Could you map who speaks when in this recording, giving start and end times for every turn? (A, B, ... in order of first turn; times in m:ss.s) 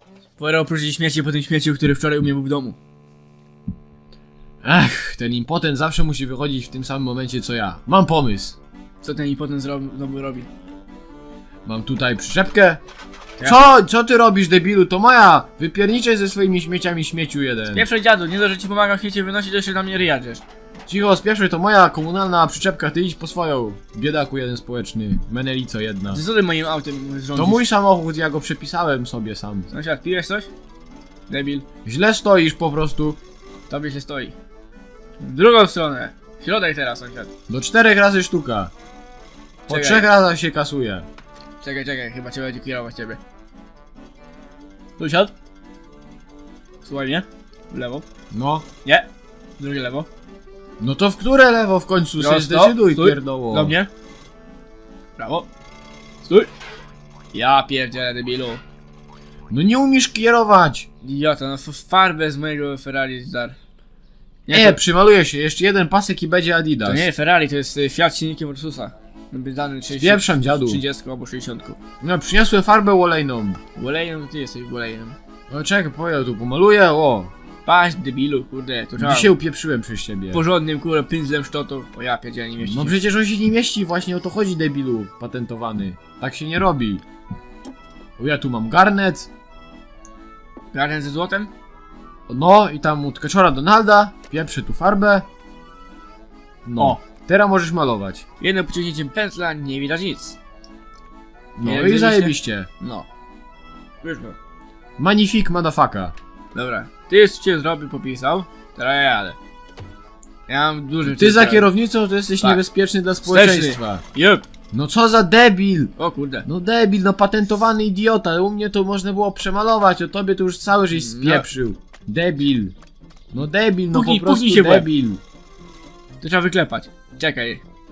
0:00.4-0:02.8 A
0:04.6-0:08.6 B
0:09.0-0:10.5 A
0:11.6-0:12.8 B
0:13.4-0:17.9 B
0:17.7-0:20.4 A
0:20.9-0:26.2 B
0:26.1-0:27.6 A
0:27.3-0:29.7 B
0:29.7-0:30.5 A
0:31.3-0:31.6 A
0:31.8-0:33.2 B
0:33.7-0:34.4 A
0:35.2-0:37.3 A
0:37.5-0:38.7 B
0:39.7-0:41.1 B
0:39.7-0:40.0 A
0:41.6-0:43.2 A
0:45.0-0:45.3 A
0:46.8-0:48.0 A
0:48.3-0:48.6 B
0:49.6-0:50.1 A
0:50.8-0:53.7 B
0:52.2-0:53.9 A
0:55.2-0:55.5 A
0:56.2-0:56.5 A
0:57.3-0:58.6 A
0:59.5-1:00.9 B
1:01.0-1:03.6 A
1:04.5-1:04.8 A
1:04.5-1:07.1 B
1:06.8-1:11.8 A
1:09.9-1:10.8 B
1:12.0-1:13.6 B
1:13.7-1:15.2 A
1:15.5-1:17.3 B
1:17.6-1:19.3 A
1:19.0-1:20.4 B
1:20.3-1:23.0 A
1:22.6-1:27.0 B
1:28.2-1:29.3 B
1:30.7-1:31.5 A
1:32.3-1:35.2 B
1:36.6-1:38.2 B
1:38.4-1:40.4 A
1:41.6-1:42.7 B
1:41.6-1:43.1 A
1:44.0-1:44.4 A
1:45.0-1:46.1 B
1:46.5-1:49.4 A
1:50.5-1:51.7 A
1:51.0-1:54.0 B
1:53.2-1:54.5 A
1:54.7-2:02.7 B
1:56.0-1:56.4 A
2:00.9-2:01.5 A
2:03.3-2:05.2 B
2:03.9-2:04.9 A
2:06.2-2:07.6 A